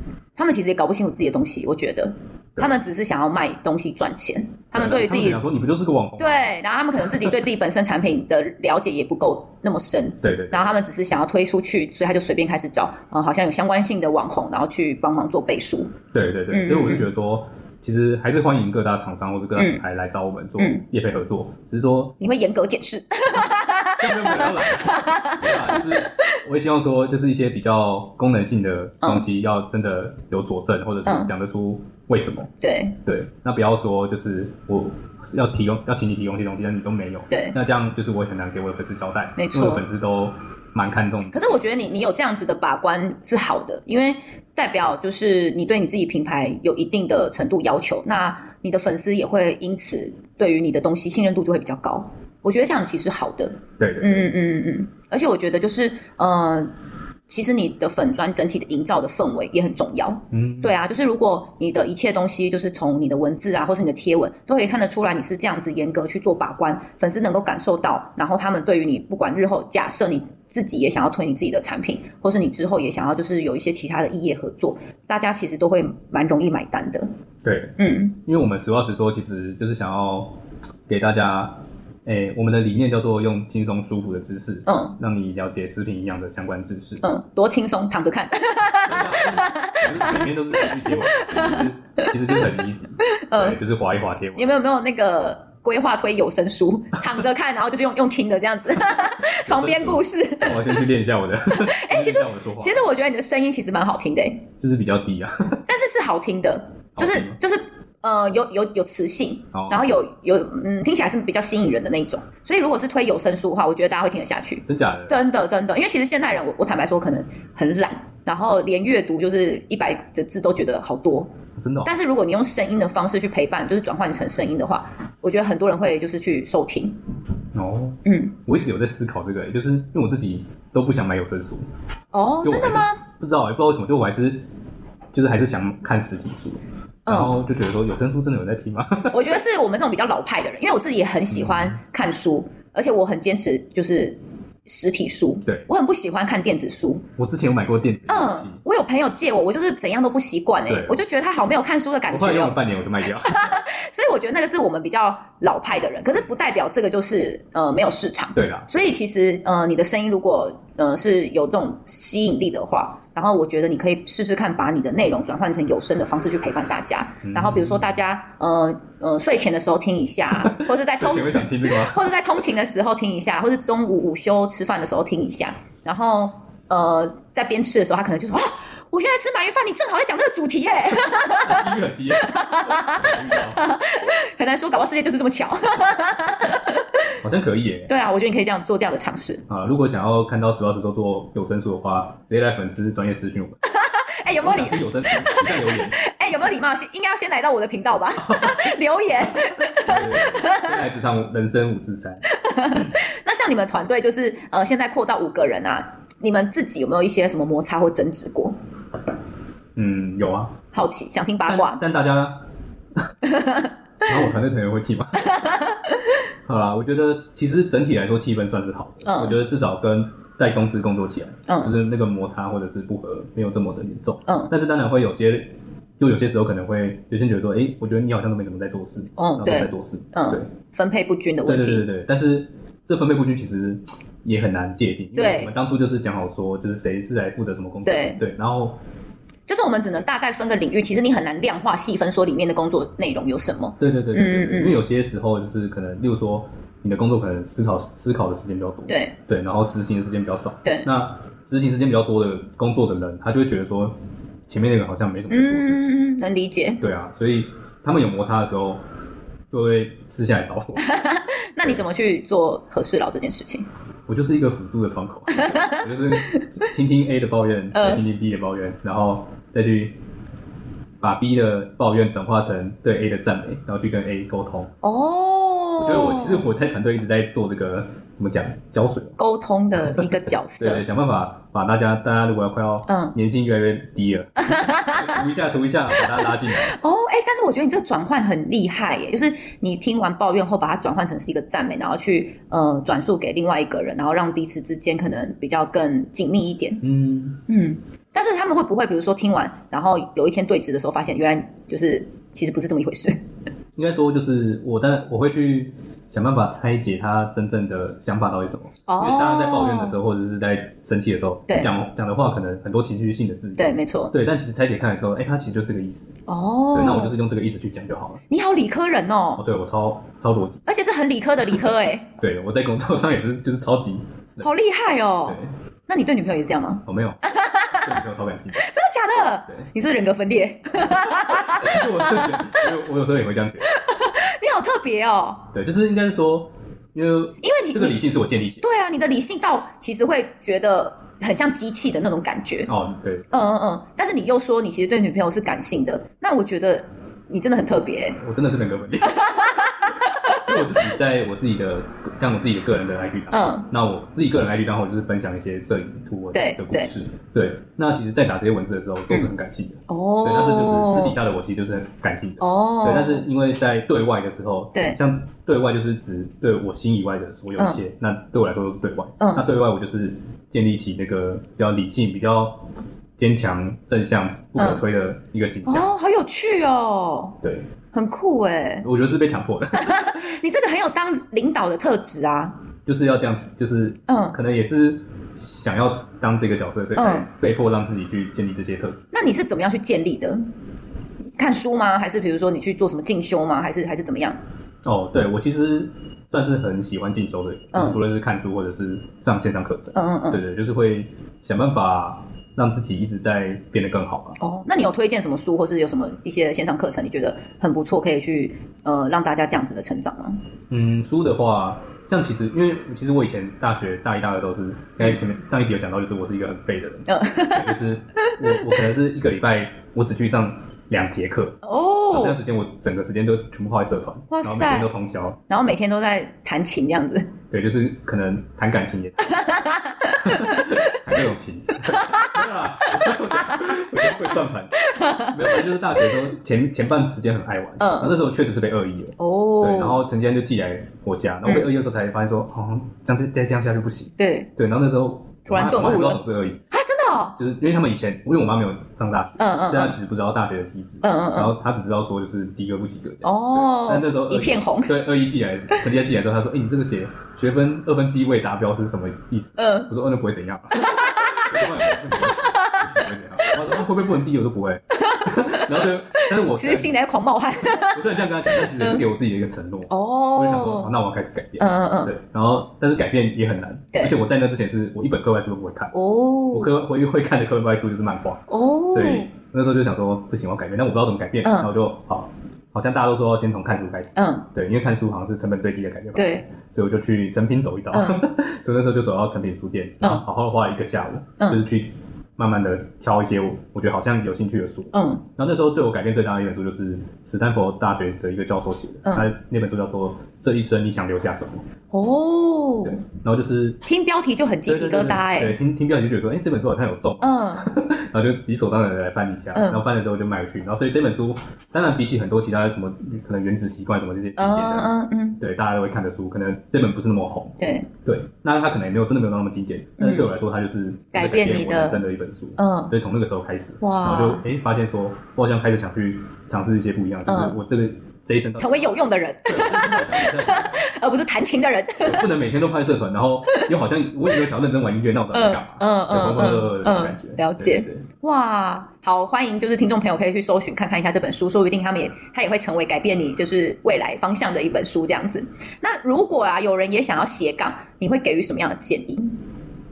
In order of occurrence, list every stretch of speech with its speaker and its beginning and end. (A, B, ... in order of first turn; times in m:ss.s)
0:00.4-0:05.4 A
0:04.7-0:07.3 B
0:06.2-0:15.9 A
0:10.2-0:10.8 B
0:16.1-0:22.1 B
0:16.5-0:17.1 A
0:19.6-0:19.8 A
0:20.6-0:20.8 A
0:22.2-0:26.1 A
0:24.0-0:32.5 B
0:31.0-0:31.3 A
0:32.6-0:33.0 A
0:33.0-0:41.6 B
0:37.3-0:37.6 A
0:39.4-0:39.8 A
0:41.3-0:56.7 A
0:53.8-0:54.3 B
0:57.3-1:17.1 A
1:00.3-1:00.8 B
1:17.4-1:20.3 B
1:17.8-1:18.2 A
1:20.9-1:27.0 B
1:24.6-1:25.0 A
1:27.0-1:32.4 A
1:28.8-1:34.6 B
1:33.1-1:33.6 A
1:34.4-1:40.8 A
1:39.3-1:42.8 B
1:41.5-1:44.4 A
1:44.6-1:45.6 B
1:45.7-2:01.3 A
1:47.0-1:47.4 B
1:49.5-1:49.9 B
1:54.7-1:55.2 B
2:01.6-2:01.9 B
2:01.8-2:07.0 A
2:07.5-2:11.7 B
2:08.0-2:08.3 A
2:12.1-2:13.0 A
2:12.4-2:14.4 B
2:15.1-2:19.4 B
2:17.1-2:17.4 A
2:19.1-2:27.0 A
2:21.3-2:21.8 B
2:27.2-2:28.6 B
2:28.1-3:06.8 A
2:30.7-2:31.0 B
2:32.1-2:33.6 B
2:38.3-2:38.7 B
2:47.2-2:47.8 B
2:50.3-2:52.1 B
3:01.3-3:03.7 B
3:07.2-3:07.9 B
3:07.9-3:09.4 A
3:09.5-3:13.6 B
3:13.8-3:20.8 A
3:14.3-3:16.0 B
3:18.2-3:18.7 B
3:19.8-3:22.2 B
3:22.3-3:28.6 A
3:29.8-3:30.6 B
3:30.7-3:31.8 A
3:31.4-3:32.4 B
3:33.2-3:34.2 A
3:34.0-3:35.3 B
3:35.2-3:36.0 A
3:36.4-3:50.5 B
3:39.0-3:39.4 A
3:41.5-3:41.7 A
3:44.2-3:44.5 A
3:49.2-3:51.8 A
3:51.4-3:58.8 B
3:55.2-3:55.5 A
3:57.8-3:58.2 A
3:59.5-4:04.8 A
4:03.8-4:14.0 B
4:08.9-4:09.1 A
4:14.5-4:15.9 B
4:15.3-4:16.8 A
4:16.8-4:18.8 B
4:19.5-4:20.9 B
4:20.8-4:23.6 A
4:24.1-4:30.0 B
4:25.3-4:26.5 A
4:27.7-4:28.0 A
4:31.0-4:34.7 B
4:34.8-4:36.4 A
4:35.8-4:39.2 B
4:39.2-4:40.8 A
4:39.8-4:40.1 B
4:40.6-4:46.7 B
4:42.9-4:43.1 A
4:44.4-4:45.2 A
4:46.1-4:56.8 A
4:56.8-4:57.4 B
4:57.5-5:03.2 A
5:03.8-5:16.2 B
5:08.9-5:10.0 A
5:13.6-5:14.1 A
5:16.3-5:17.2 A
5:16.7-5:18.2 B
5:18.3-5:19.4 A
5:19.4-5:20.6 B
5:20.6-5:22.1 A
5:21.6-5:24.5 B
5:24.4-5:28.0 A
5:25.2-5:25.5 B
5:26.8-5:27.2 B
5:27.7-5:28.6 B
5:28.5-5:32.7 A
5:30.9-5:33.7 B
5:33.6-5:35.5 A
5:35.5-5:38.6 B
5:37.4-5:38.0 A
5:38.6-5:42.7 A
5:42.7-5:43.3 B
5:43.3-5:48.2 A
5:48.2-5:49.2 B
5:49.0-5:50.8 A
5:50.3-6:12.6 B
5:53.3-5:53.7 A
5:56.3-5:56.9 A
5:59.9-6:01.2 A
6:02.4-6:03.3 A
6:09.2-6:09.4 A
6:13.2-6:15.9 B
6:14.6-6:14.8 A
6:15.6-6:17.4 A
6:17.4-6:17.7 B
6:17.9-6:18.9 A
6:18.8-6:20.2 B
6:19.7-6:22.5 A
6:22.8-6:29.1 B
6:24.1-6:24.4 A
6:27.0-6:27.3 A
6:29.1-6:30.4 A
6:31.4-6:34.4 A
6:34.8-6:44.4 B
6:37.7-6:38.0 A
6:39.9-6:40.4 A
6:44.4-6:50.4 A
6:50.7-7:01.6 B
6:57.1-6:58.6 A
7:01.6-7:02.4 A
7:02.1-7:05.4 B
7:04.3-7:04.9 A
7:05.5-7:07.3 A
7:07.5-7:09.4 B
7:09.3-7:11.0 A
7:10.2-7:26.6 B
7:11.9-7:12.5 A
7:13.1-7:14.1 A
7:14.8-7:15.6 A
7:17.8-7:18.2 A
7:19.2-7:20.0 A
7:24.2-7:24.5 A
7:25.5-7:26.2 A
7:26.7-7:27.4 A
7:27.4-7:46.9 B
7:29.4-7:30.0 A
7:31.0-7:31.5 A
7:33.2-7:35.0 A
7:39.6-7:39.9 A
7:40.8-7:43.6 A
7:44.9-7:49.0 A
7:47.8-7:55.9 B
7:49.9-7:50.9 A
7:51.6-7:52.1 A
7:55.9-7:56.7 A
7:56.5-8:21.6 B
7:58.5-7:59.3 A
8:01.4-8:01.7 A
8:04.2-8:04.4 A
8:06.1-8:06.4 A
8:07.9-8:08.2 A
8:14.9-8:15.2 A
8:21.9-8:23.0 A
8:22.8-8:23.8 B
8:23.8-8:25.6 A
8:24.7-8:50.8 B
8:27.2-8:27.7 A
8:29.5-8:29.8 A
8:34.4-8:35.4 A
8:37.6-8:37.9 A
8:40.0-8:40.3 A
8:41.1-8:42.0 A
8:42.6-8:42.9 A
8:43.8-8:44.4 A
8:47.3-8:47.6 A
8:48.6-8:52.3 A
8:52.0-8:58.0 B
8:55.3-9:09.4 A